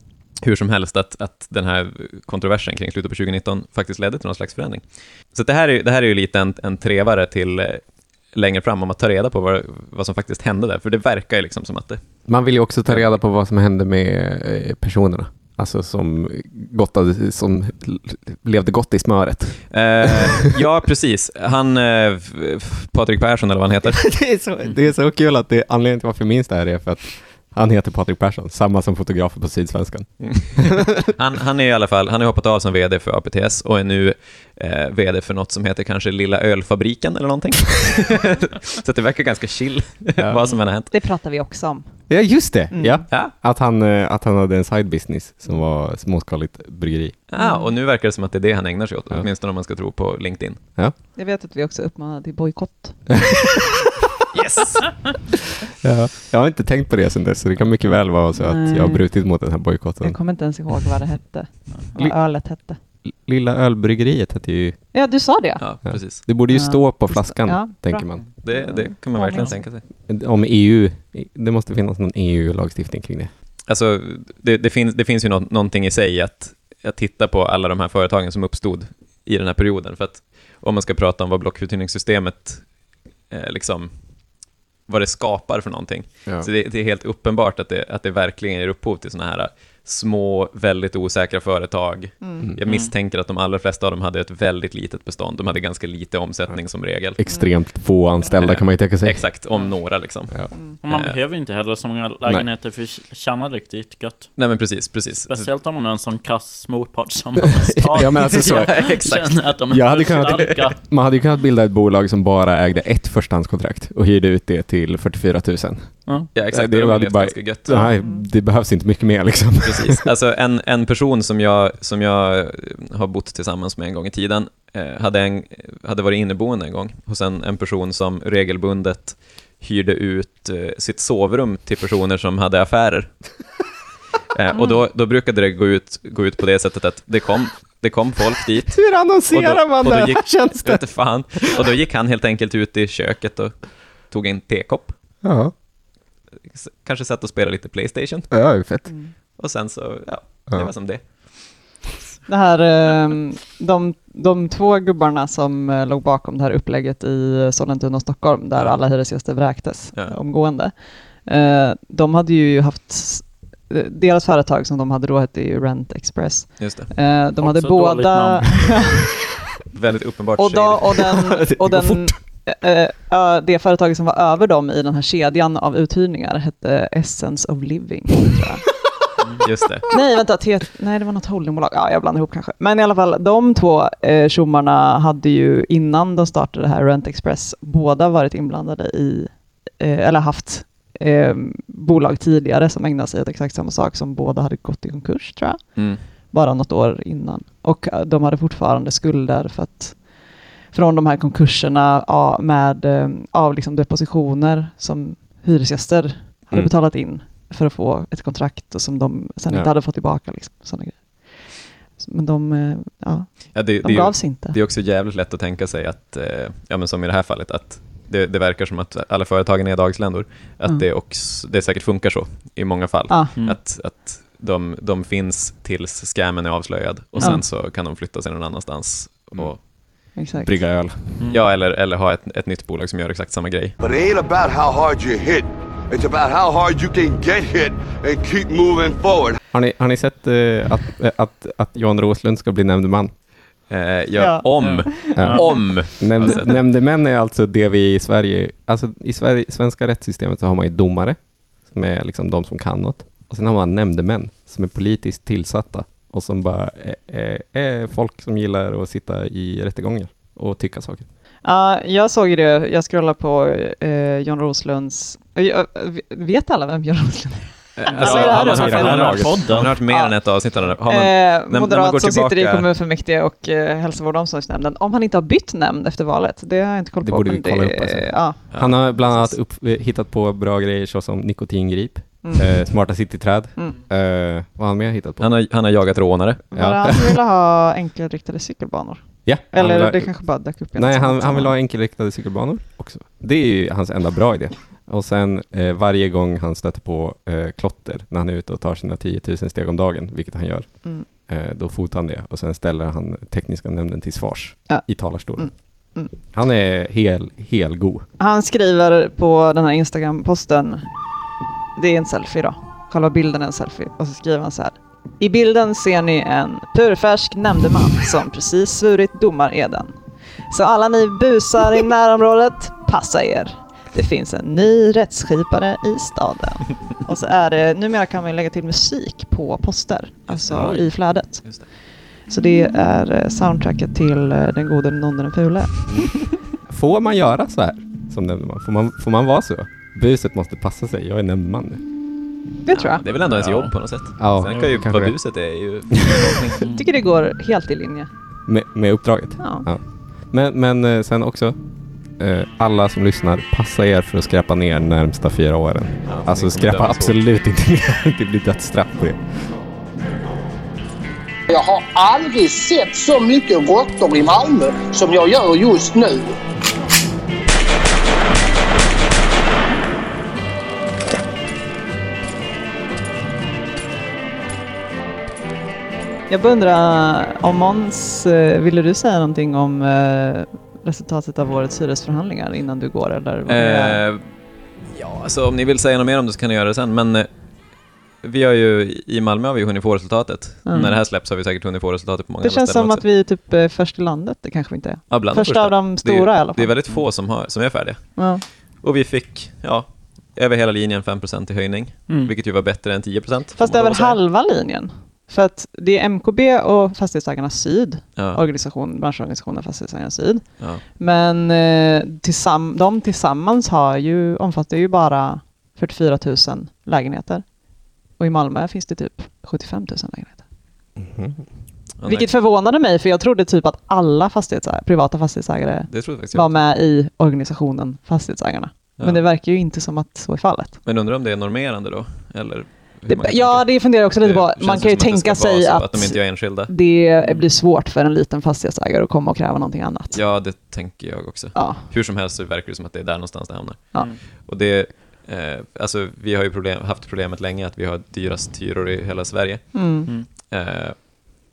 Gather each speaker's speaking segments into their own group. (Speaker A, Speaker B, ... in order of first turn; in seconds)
Speaker A: 0.3-12.0, 19.7-24.1, 30.2-40.9, 47.3-50.6, 54.4-55.0, 65.6-66.2, 68.2-69.8, 73.7-97.2, 98.3-101.2, 104.4-105.5, 108.3-109.6, 116.3-117.9, 119.6-133.4, 134.4-145.0, 146.5-148.5, 149.4-151.8, 166.6-166.9, 169.7-171.1, 179.4-179.9, 195.8-196.0, 213.5-229.7, 231.3-233.8, 243.7-246.6, 267.8-272.7, 278.5-278.9, 285.2-286.5, 330.3-331.7, 342.7-346.6, 356.1-357.2, 383.5-393.0, 395.1-404.2, 408.2-408.4, 422.0-422.3, 425.9-426.6, 430.9-436.8, 440.1-451.1
Speaker B: 12.3-20.5, 23.9-30.8, 40.2-40.4, 42.1-47.2, 55.8-60.2, 62.0-62.2, 62.8-64.8, 65.9-68.2, 69.9-73.3, 96.5-99.4, 107.6-120.1, 138.7-141.6, 145.2-145.5, 148.3-148.9, 171.3-172.2, 229.4-231.2, 239.5-243.1, 245.2-261.1, 267.9-269.6, 277.0-285.3, 286.5-287.2, 289.2-305.6, 306.1-308.1, 336.7-341.9, 344.2-345.2, 348.5-351.6, 352.1-359.6, 421.0-421.5
Speaker C: 40.9-42.1, 42.7-43.0, 47.4-47.7, 51.2-53.4, 58.4-59.1, 60.0-62.8, 64.9-69.6, 97.3-97.5, 117.7-118.2, 148.9-149.1, 152.3-169.1, 170.4-178.8, 179.9-214.6, 230.2-230.6, 244.2-245.6, 261.4-279.3, 282.2-282.9, 286.5-291.6, 304.7-306.1, 308.2-310.9, 311.8-320.0, 320.5-331.7, 332.3-336.1, 342.6-343.0, 346.7-348.1, 349.4-349.7, 376.3-384.0, 390.7-390.9, 392.4-396.7, 398.2-398.4, 403.6-420.4, 422.1-430.8, 433.1-440.2, 441.5-441.8, 449.7-450.1
Speaker D: 92.7-92.9, 100.8-104.5, 105.3-110.8, 167.4-168.8, 231.2-231.4, 244.6-245.6, 268.0-269.7, 343.3-343.8, 344.5-344.8, 346.6-346.9, 402.1-402.3, 444.0-444.2
Speaker E: 233.8-239.4
Speaker F: 361.5-366.4